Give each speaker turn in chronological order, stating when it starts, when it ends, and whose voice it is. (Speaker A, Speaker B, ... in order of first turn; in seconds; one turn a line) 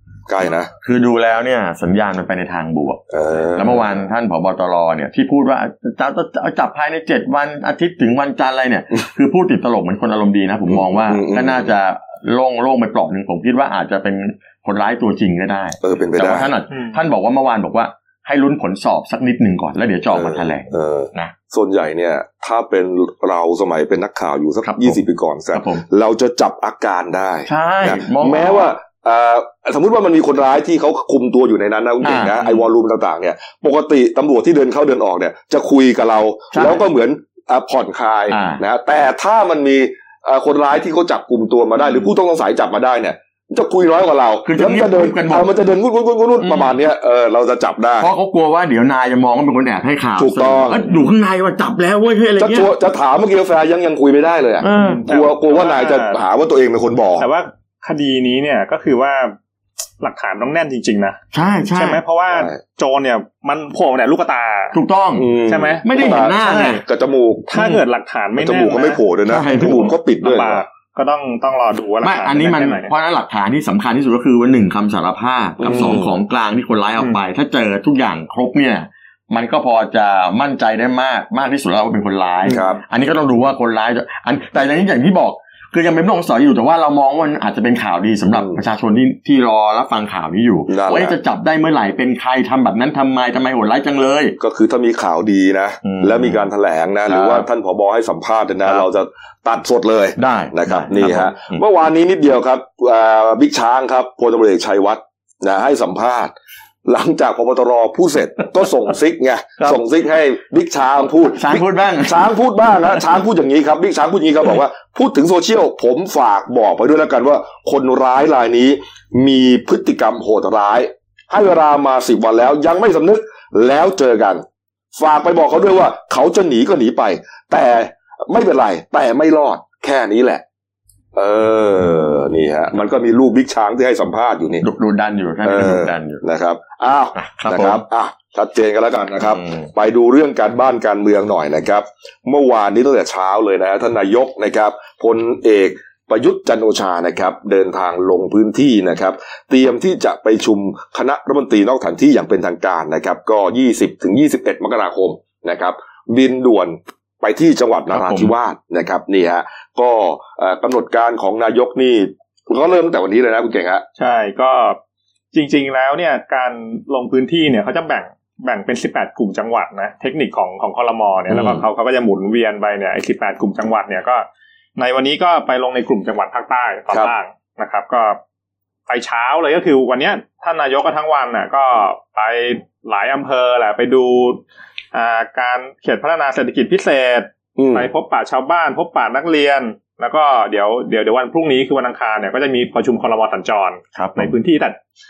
Speaker A: 0.3-0.7
Speaker B: 0.8-3.0
Speaker A: 3.1-4.0
Speaker B: 3.5-21.3
Speaker A: 10.7-11.7
Speaker A: 15.8-16.5
Speaker C: 16.7-17.0
Speaker A: 20.1-48.1
Speaker B: 24.6-25.0
Speaker B: 25.5-25.8
Speaker B: 27.5-28.7
Speaker B: 32.0-32.4
Speaker B: 36.5-36.8
Speaker B: 38.3-38.6
Speaker B: 44.5-45.5
Speaker B: 46.4-46.8
Speaker B: 48.0-52.7
Speaker A: 50.2-50.8
Speaker A: 52.4-57.3
Speaker B: 54.6-55.0
Speaker C: 54.8-56.2
Speaker C: 57.2-59.4
Speaker C: 60.0-61.2
Speaker B: 61.3-62.0
Speaker C: 61.7-64.8
Speaker A: 62.3-62.6
Speaker B: 64.7-66.8
Speaker A: 65.2-67.5
Speaker C: 65.5-65.9
Speaker C: 67.5-69.0
Speaker B: 67.5-67.8
Speaker A: 68.4-70.6
Speaker B: 69.3-69.9
Speaker C: 69.8-72.9
Speaker B: 72.0-94.4
Speaker A: 75.6-76.1
Speaker A: 82.5-82.8
Speaker A: 88.3-88.6
Speaker A: 90.7-91.1
Speaker A: 94.4-106.3
Speaker B: 95.8-96.4
Speaker B: 97.1-97.5
Speaker B: 100.2-101.6
Speaker A: 106.8-130.4
Speaker B: 111.2-112.2
Speaker A: 131.1-134.6
Speaker B: 134.6-136.2
Speaker A: 135.4-163.8
Speaker B: 137.1-137.8
Speaker B: 139.4-139.7
Speaker B: 157.9-158.3
Speaker C: 164.0-164.8
Speaker C: 165.3-174.2
Speaker A: 171.3-171.6
Speaker C: 174.8-178.2
Speaker C: 178.9-184.4
Speaker C: 184.9-194.8
Speaker A: 187.6-187.9
Speaker B: 193.9-194.3